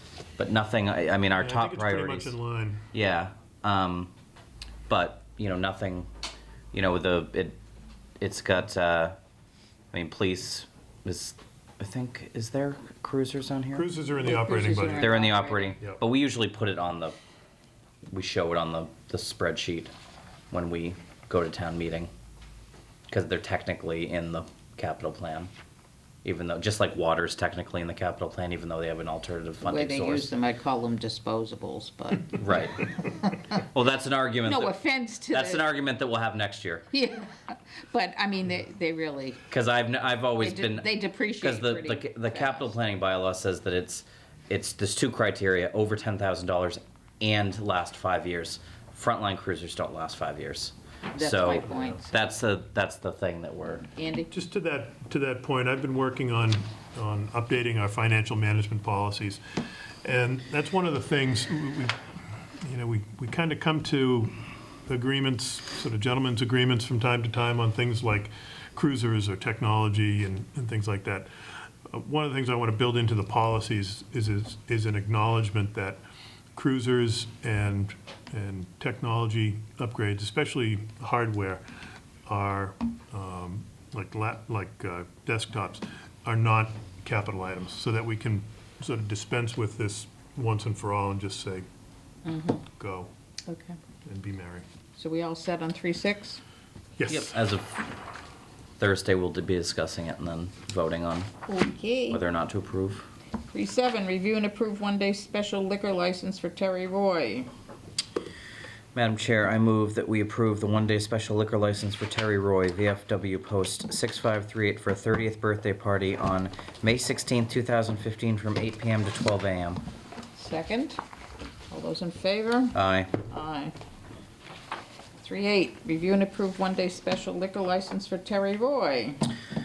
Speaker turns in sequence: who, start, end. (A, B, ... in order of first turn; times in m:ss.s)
0:00.4-0:02.3 A
0:01.4-0:02.8 B
0:02.9-0:04.1 A
0:04.9-0:06.1 A
0:06.7-0:07.6 A
0:08.2-0:09.2 A
0:09.9-0:13.9 A
0:13.7-0:15.2 B
0:14.2-0:15.8 C
0:15.0-0:17.2 A
0:18.1-0:19.9 A
0:20.5-0:22.1 A
0:23.1-0:25.5 A
0:26.2-0:30.3 A
0:29.6-0:33.6 C
0:32.3-0:33.0 A
0:33.5-0:34.7 A
0:34.4-0:35.6 C
0:35.3-0:36.9 A
0:36.9-0:39.5 C
0:39.5-0:53.9 A
0:40.4-0:42.7 C
0:51.1-0:52.1 C
0:53.9-0:54.3 C
0:54.3-0:59.4 B
1:00.0-1:04.3 B
1:04.9-1:16.0 B
1:16.5-1:21.6 B
1:22.2-1:31.6 B
1:32.2-1:32.7 C
1:32.7-1:33.1 B
1:33.5-1:33.8 C
1:34.0-1:34.6 B
1:35.0-1:36.4 C
1:37.0-1:37.3 B
1:37.1-1:37.8 A
1:38.8-1:41.3 A
1:41.5-1:42.2 C
1:42.1-1:43.1 A
1:43.5-1:47.5 C
1:48.9-1:59.8 A
2:00.3-2:01.0 C
2:01.7-2:02.7 C
2:02.7-2:03.2 A
2:03.2-2:03.7 C
2:05.2-2:09.2 C